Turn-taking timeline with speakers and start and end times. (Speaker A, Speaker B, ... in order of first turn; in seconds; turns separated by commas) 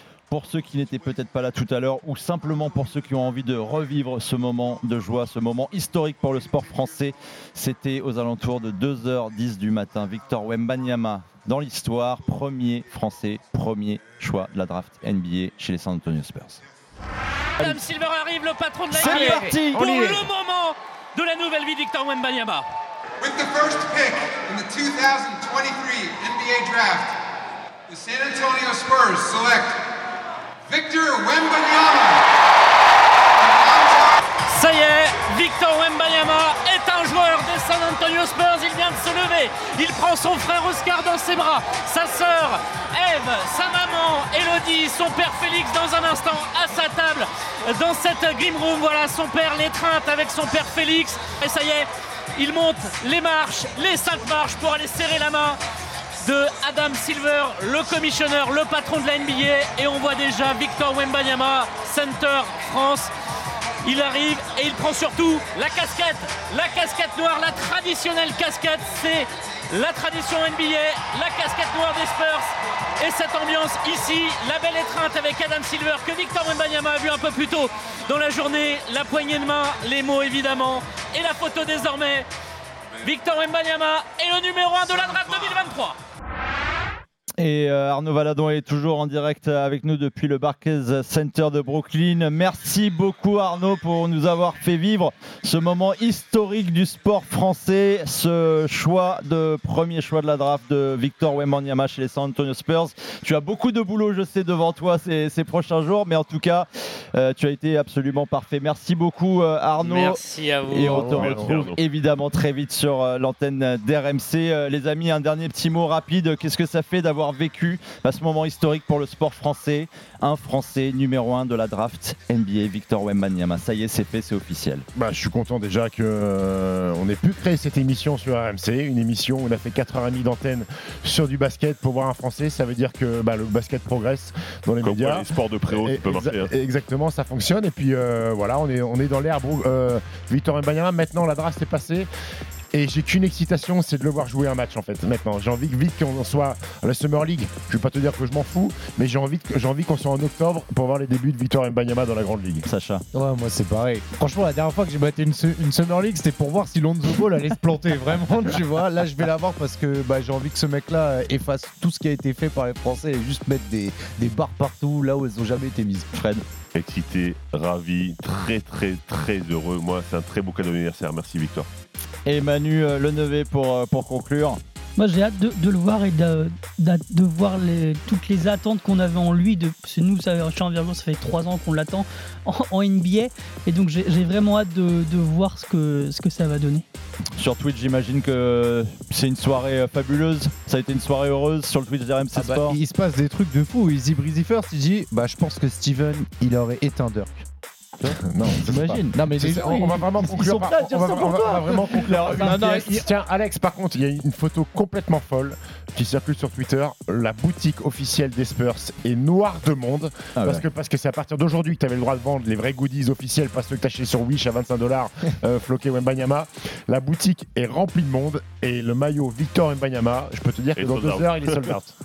Speaker A: 0.3-16.6, Speaker B: 17.6-22.7, Speaker A: 18.9-20.2, Speaker C: 23.2-27.1, Speaker C: 27.9-29.8, Speaker C: 30.6-32.2, Speaker C: 33.4-34.2, Speaker B: 34.5-55.6, Speaker B: 56.2-63.1, Speaker B: 63.8-82.3, Speaker B: 83.0-86.0, Speaker A: 87.4-124.8, Speaker B: 109.8-111.5, Speaker D: 110.8-111.7, Speaker E: 111.0-111.8, Speaker D: 124.9-142.1, Speaker E: 134.8-136.5, Speaker D: 142.7-152.6, Speaker A: 152.7-153.0, Speaker F: 153.1-166.1, Speaker A: 166.1-166.4, Speaker E: 166.7-171.7, Speaker A: 172.2-174.6, Speaker G: 175.0-186.8, Speaker A: 187.4-192.8, Speaker F: 192.3-197.4, Speaker D: 198.0-221.9, Speaker F: 198.0-202.9, Speaker G: 200.7-201.3, Speaker A: 201.4-203.0, Speaker G: 202.0-202.5, Speaker A: 210.4-210.6, Speaker E: 220.8-221.7